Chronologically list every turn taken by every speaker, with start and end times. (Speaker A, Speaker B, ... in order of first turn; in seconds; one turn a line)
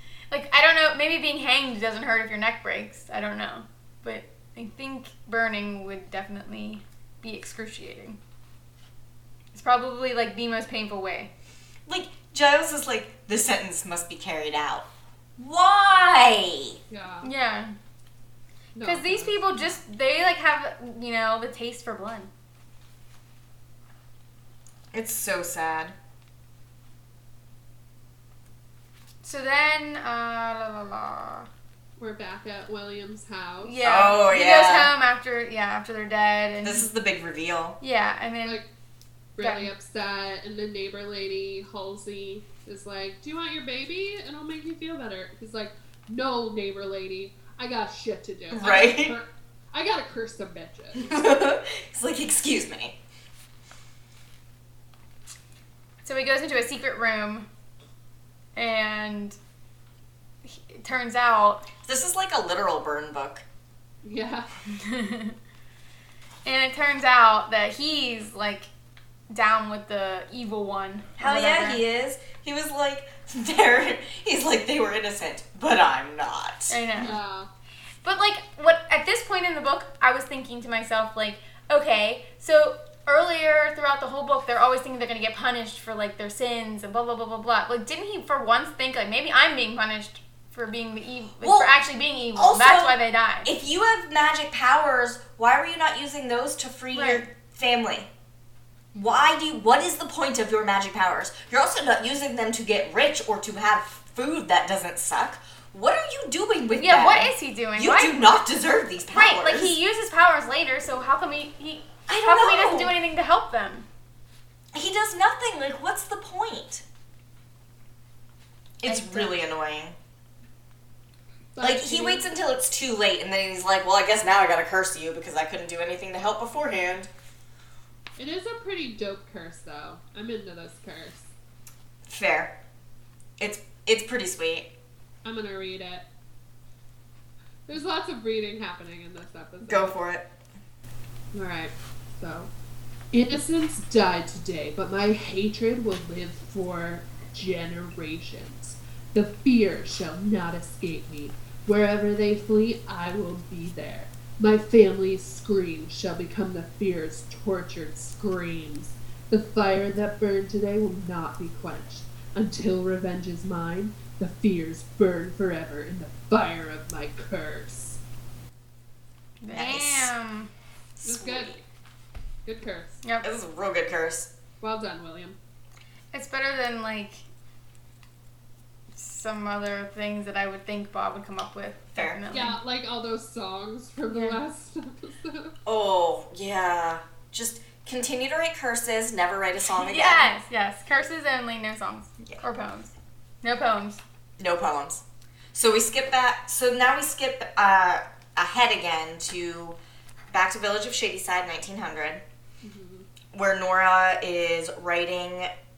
Speaker A: 0.3-8.2
Speaker A: 9.5-11.3
Speaker B: 11.9-16.8
Speaker C: 16.9-17.3
Speaker A: 17.2-17.7
Speaker C: 18.7-19.8
Speaker A: 18.8-22.3
Speaker B: 24.9-25.9
Speaker A: 29.2-31.5
Speaker C: 32.0-33.8
Speaker A: 33.6-36.9
Speaker B: 33.8-34.9
Speaker B: 36.6-37.8
Speaker A: 37.8-38.6
Speaker C: 39.4-51.2
Speaker A: 39.4-39.7
Speaker B: 48.5-49.2
Speaker B: 50.9-53.0
Speaker A: 56.0-57.5
Speaker A: 58.5-59.4
Speaker A: 60.4-61.7
Speaker B: 61.9-63.4
Speaker C: 64.0-64.5
Speaker A: 64.7-65.3
Speaker A: 66.4-68.7
Speaker A: 69.3-71.8
Speaker B: 71.2-76.8
Speaker A: 76.7-77.2
Speaker C: 77.0-77.5
Speaker A: 78.0-93.5
Speaker B: 91.4-91.7
Speaker B: 92.3-98.1
Speaker A: 96.9-97.2
Speaker B: 98.9-109.8
Speaker A: 106.8-108.2
Speaker A: 109.1-113.8
Speaker B: 112.1-113.0
Speaker B: 114.7-116.8
Speaker B: 118.8-120.0
Speaker A: 118.8-119.4
Speaker C: 121.5-122.2
Speaker B: 121.6-127.1
Speaker C: 128.2-131.3
Speaker B: 132.1-132.6
Speaker B: 133.4-134.7
Speaker C: 135.2-136.1
Speaker C: 137.7-139.9
Speaker B: 139.7-140.3
Speaker C: 141.3-142.5
Speaker C: 143.1-168.0
Speaker A: 169.4-170.5
Speaker B: 169.5-170.1
Speaker B: 171.0-171.6
Speaker C: 171.0-171.6
Speaker C: 172.4-173.0
Speaker A: 173.0-173.3
Speaker B: 173.2-174.3
Speaker C: 174.6-175.4
Speaker A: 176.1-177.2
Speaker A: 178.9-182.6
Speaker C: 182.3-185.5
Speaker A: 184.1-184.4
Speaker B: 185.7-190.3
Speaker A: 189.7-194.0
Speaker B: 194.4-195.0
Speaker B: 195.5-199.8
Speaker B: 200.3-202.2
Speaker C: 202.6-203.1
Speaker B: 203.3-205.5